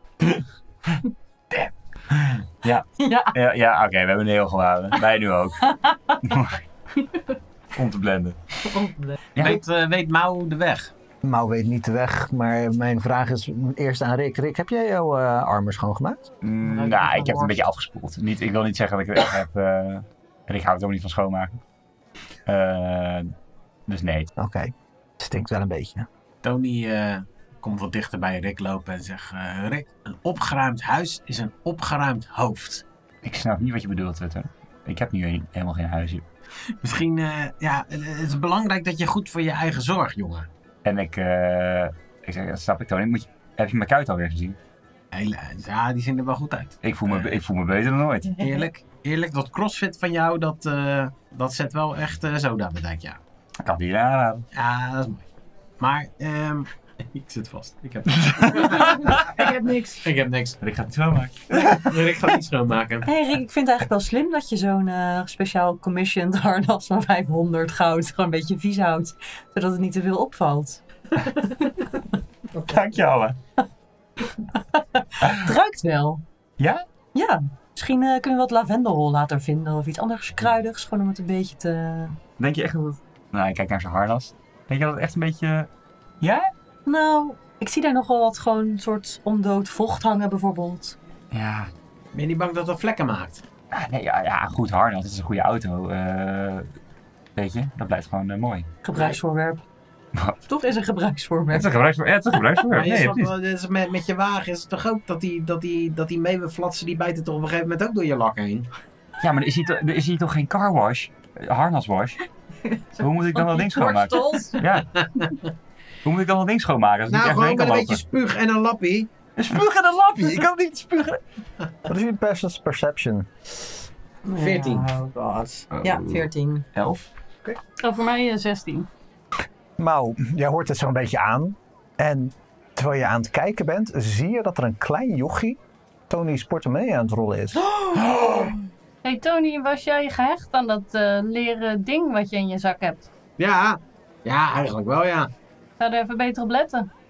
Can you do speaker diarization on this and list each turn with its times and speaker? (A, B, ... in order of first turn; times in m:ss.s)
0:02.1-0:06.6 A
0:03.0-0:03.4 B
0:05.6-0:06.2 B
0:07.7-0:08.6 A
0:08.7-0:09.2 B
0:09.4-0:09.6 A
0:09.4-0:10.9 C
0:11.2-0:16.3 D
0:16.4-0:21.6 A
0:16.6-0:17.6 B
0:22.5-0:23.3 A
0:23.9-0:24.3 A
0:24.4-0:26.1 D
0:26.4-0:32.8 C
0:33.2-0:36.2 A
0:36.8-0:40.5 C
0:40.8-0:44.6 A
0:45.1-0:47.4 C
0:46.8-0:48.4 A
0:48.4-0:53.2 C
0:53.6-0:54.5 A
0:54.5-0:55.3 C
0:55.8-0:59.5 C
0:58.3-0:58.8 A
0:58.9-1:00.0 E
1:00.0-1:00.6 C
1:00.6-1:02.2 A
1:01.5-1:03.1 C
1:03.0-1:12.0 B
1:12.6-1:13.4 A
1:14.4-1:16.2 B
1:15.2-1:15.5 A
1:16.6-1:16.8 A
1:17.2-1:22.2 B
1:22.4-1:25.7 A
1:26.2-1:26.5 A
1:26.9-1:31.0 B
1:31.3-1:31.7 A
1:32.1-1:33.4 C
1:33.7-1:36.7 A
1:37.4-1:38.7 A
1:38.8-1:39.6 B
1:40.5-1:41.7 B
1:41.5-1:43.3 A
1:42.6-1:48.7 C
1:49.2-1:52.2 A
1:52.6-1:54.6 B
1:53.0-1:55.2 A
1:55.1-1:55.3 C
1:56.0-1:58.0 A
1:57.1-1:59.1 C
1:59.4-2:01.2 A
2:01.8-2:03.3 D
2:04.3-2:06.6 B
2:04.3-2:05.6 C
2:05.7-2:07.1 A
2:07.8-2:08.9 E
2:09.8-2:17.7 D
2:17.7-2:18.0 B
2:19.0-2:23.1 E
2:23.4-2:25.3 C
2:25.8-2:26.9 E